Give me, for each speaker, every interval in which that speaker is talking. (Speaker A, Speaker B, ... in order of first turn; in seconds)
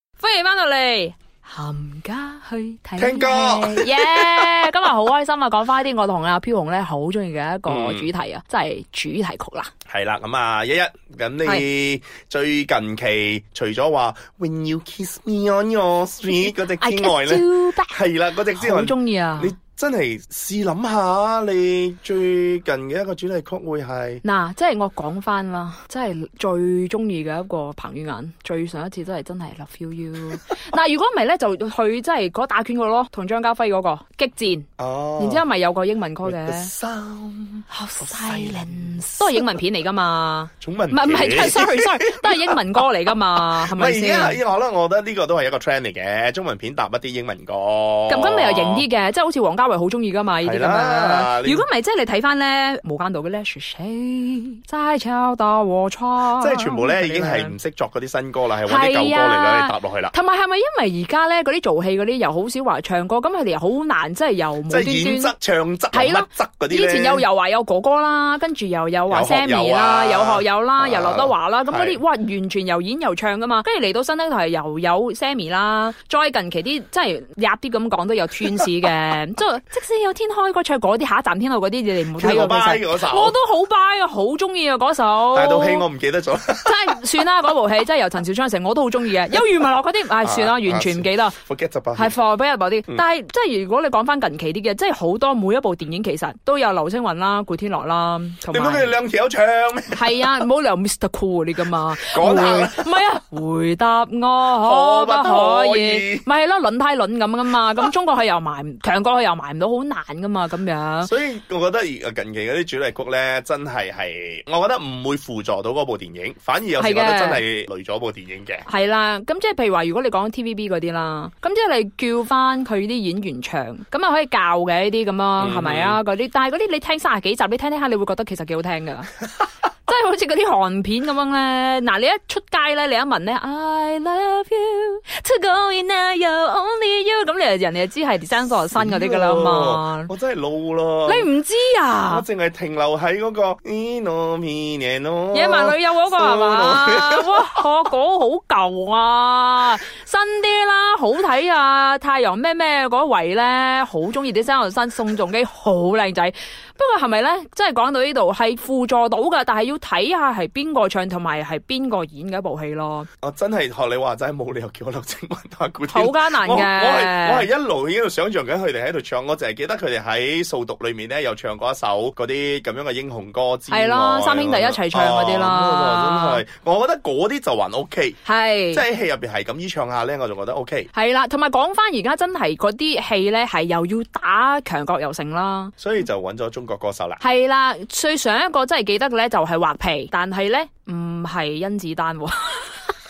Speaker A: 0.2-9.7, 16.4-18.0, 18.5-19.6, 24.2-36.7, 37.7-44.4, 48.1-57.6, 58.6-65.3, 65.9-85.9, 86.6-91.4, 92.0-99.0, 99.9-111.1, 116.8-117.4, 118.7-129.1, 129.9-140.1, 141.1-142.3, 145.3-163.1, 165.9-167.5, 173.7-176.4, 178.2-178.8, 180.9-185.8, 187.2-193.0
Speaker B: 3.0-4.5, 7.7-8.1, 9.9-24.2, 34.8-35.5, 36.2-39.6, 40.6-48.9, 50.4-51.6, 56.4-60.1, 64.7-67.2, 69.1-72.0, 78.4-78.7, 82.2-83.4, 85.3-87.0, 90.2-92.2, 98.5-100.5, 102.0-102.9, 104.5-106.3, 111.0-118.7, 125.4-126.0, 138.7-141.3, 142.1-147.6, 163.2-178.2, 178.7-180.9, 185.8-187.2